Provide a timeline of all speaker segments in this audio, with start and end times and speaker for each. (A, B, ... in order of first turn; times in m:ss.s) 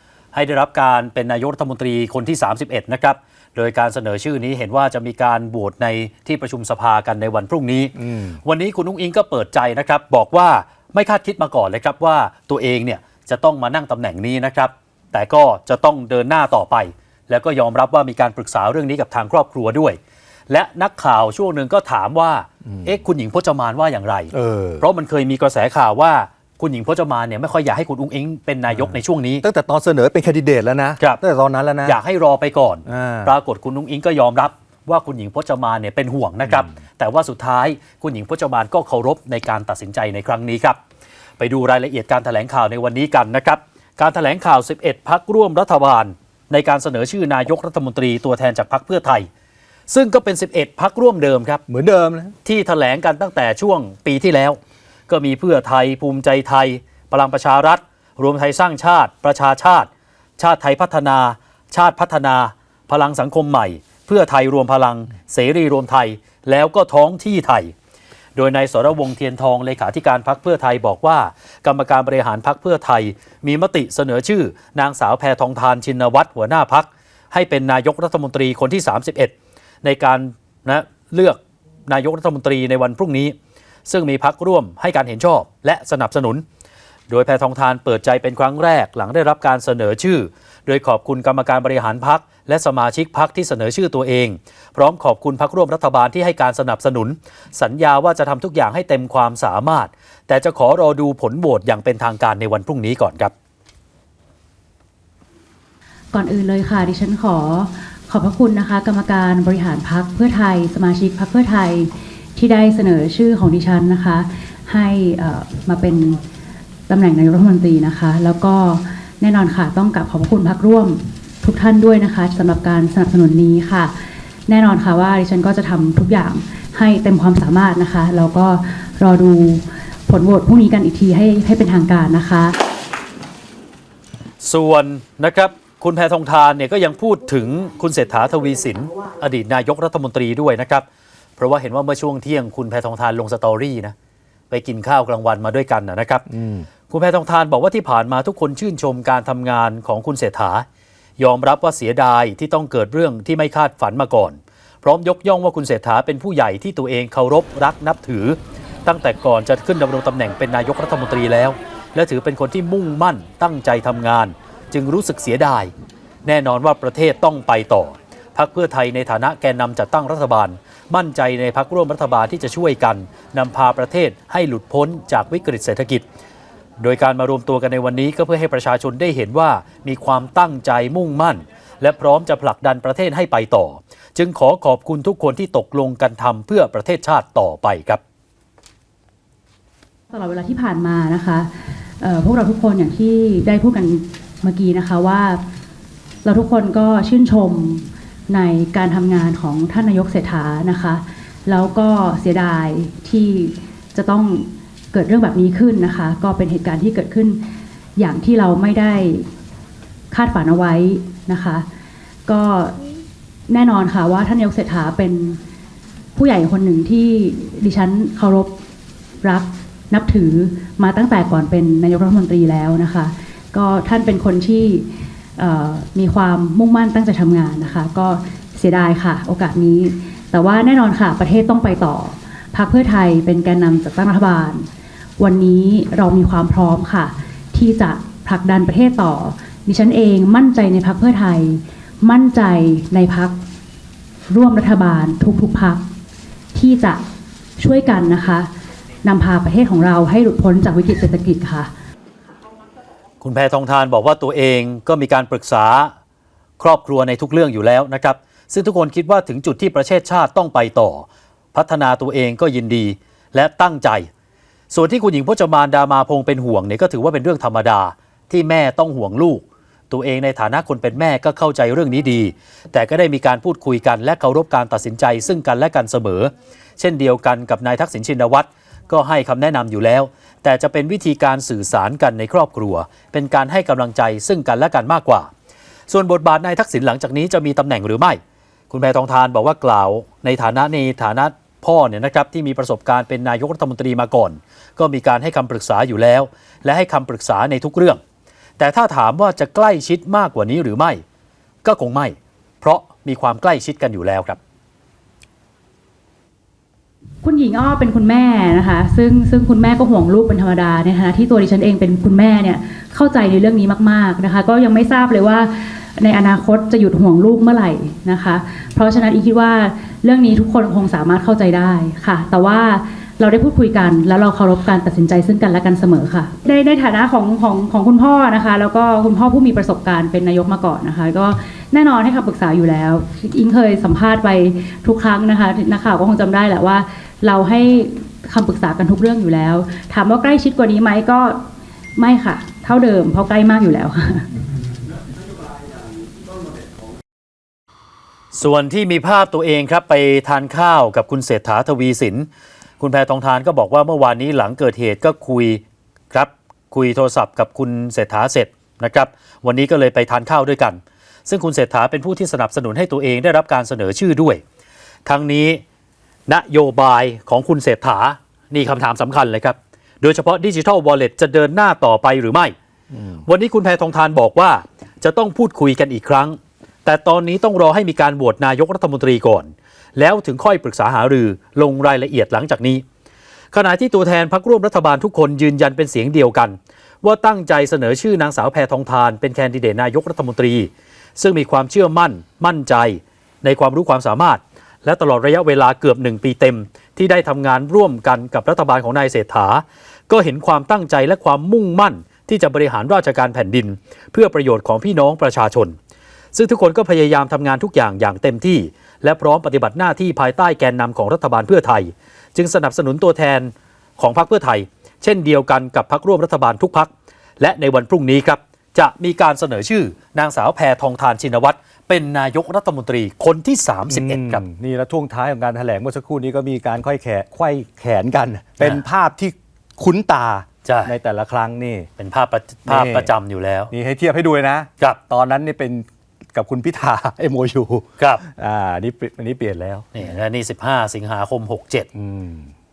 0:00.3-0:20.0 A
0:20.5-0:29.4 A
0:24.3-0:24.8 B
0:29.4-0:32.0 B
0:31.8-0:40.8 A
0:32.9-0:33.3 B
0:41.4-0:49.3 A
0:49.9-0:51.6 A
0:51.7-0:52.3 B
0:52.4-1:07.7 A
1:08.4-1:23.3 A
1:23.9-1:26.4 A
1:27.1-1:43.3 A
1:46.1-1:56.2 C
1:56.9-2:03.9 C
2:04.5-2:12.5 C
2:14.4-2:20.8 A
2:21.4-2:23.9 A
2:24.5-2:26.3 A
2:26.9-2:30.6 A
2:31.2-2:45.7 A
2:46.2-2:56.0 A
2:56.8-3:08.0 A
3:10.1-3:11.5 C
3:12.0-3:15.4 C
3:16.2-3:27.4 C
3:28.0-3:29.3 C
3:30.1-3:31.6 C
3:32.3-3:32.8 C
3:33.5-3:35.4 C
3:36.2-3:38.5 C
3:39.2-3:54.7 C
3:55.2-4:03.4 C
4:04.3-4:05.9 C
4:06.5-4:07.0 C
4:07.6-4:08.5 C
4:09.0-4:11.7 C
4:13.2-4:15.9 A
4:16.6-4:24.1 A
4:24.7-4:45.3 A
4:45.9-4:48.2 A
4:48.7-4:58.0 A
4:58.6-5:01.0 A
5:01.6-5:04.4 A
5:07.2-5:41.4 C
5:42.0-5:44.3 C
5:48.3-5:52.3 A
5:52.8-6:04.4 A
6:05.0-6:05.6 A
6:06.3-6:12.5 A
6:13.2-6:22.8 A
6:23.5-6:45.7 A
6:46.3-7:04.4 A
7:03.9-7:11.9 B
7:10.6-7:10.9 A
7:12.0-7:13.7 A
7:12.7-7:13.1 B
7:13.7-7:19.9 B
7:19.9-7:21.9 A
7:22.0-7:22.5 B